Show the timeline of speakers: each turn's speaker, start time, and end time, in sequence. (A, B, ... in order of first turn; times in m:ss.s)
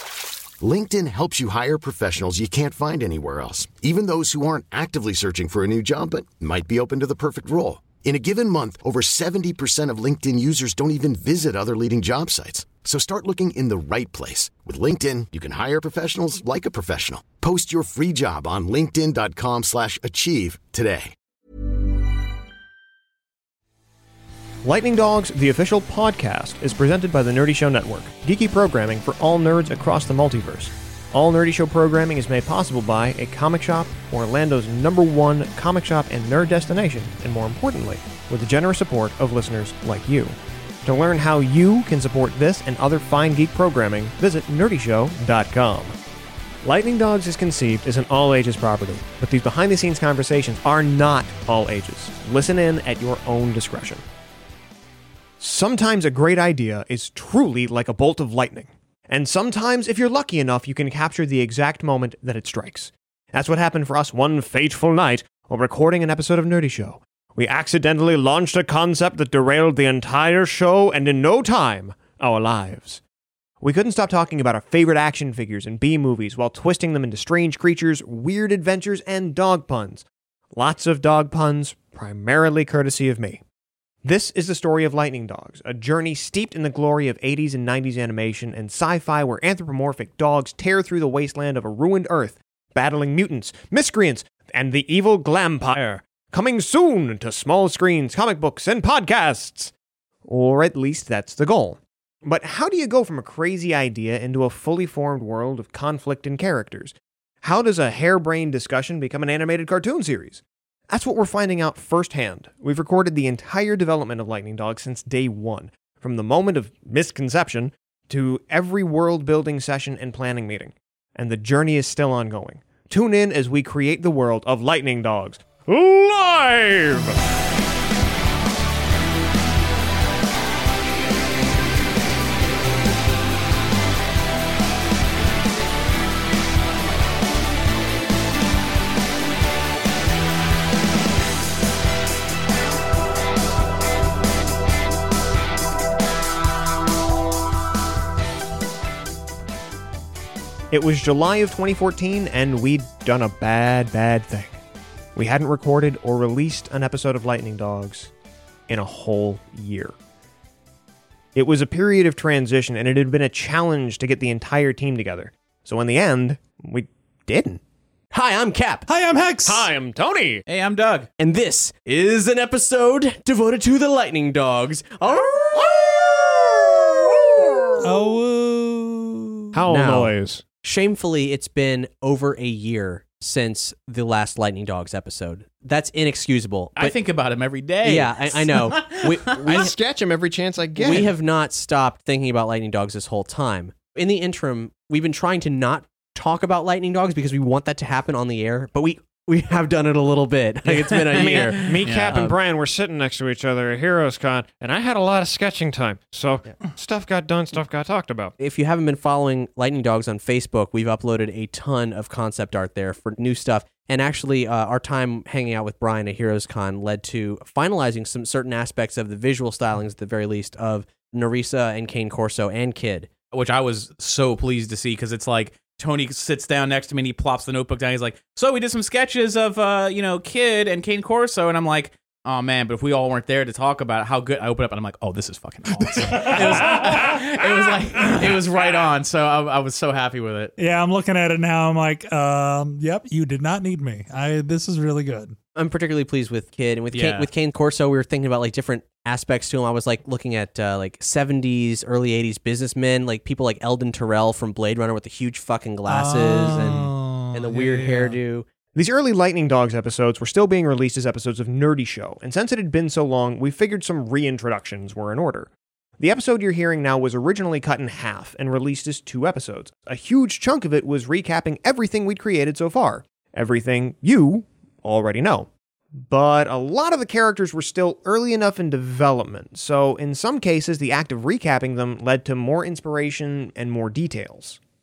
0:00.6-0:21.1 A
0:24.6-0:46.0 B
0:46.6-0:54.0 B
0:55.4-1:13.0 B
1:13.6-1:23.4 B
1:24.0-1:39.7 B
1:40.2-2:07.2 B
2:30.7-2:34.6 B
2:35.2-2:38.1 B
2:38.7-2:39.9 B
2:41.4-2:47.6 B
2:48.1-2:48.9 C
2:48.9-2:49.7 D
2:49.5-2:50.4 B
2:50.5-2:51.1 E
2:51.2-2:58.1 C
2:57.8-2:58.8 D
2:58.8-3:00.1 C
2:59.5-3:00.4 B
3:00.6-3:07.0 C
3:06.8-3:09.7 E
3:07.8-3:09.7 C
3:09.4-3:11.1 B
3:10.8-3:22.4 C
3:20.7-3:22.3 E
3:21.1-3:28.3 B
3:28.4-3:43.1 C
3:43.3-4:00.5 E
3:55.9-3:57.4 D
4:00.6-4:05.4 D
4:05.6-4:18.5 C
4:06.9-4:07.3 E
4:15.9-4:18.2 D
4:18.8-4:44.6 B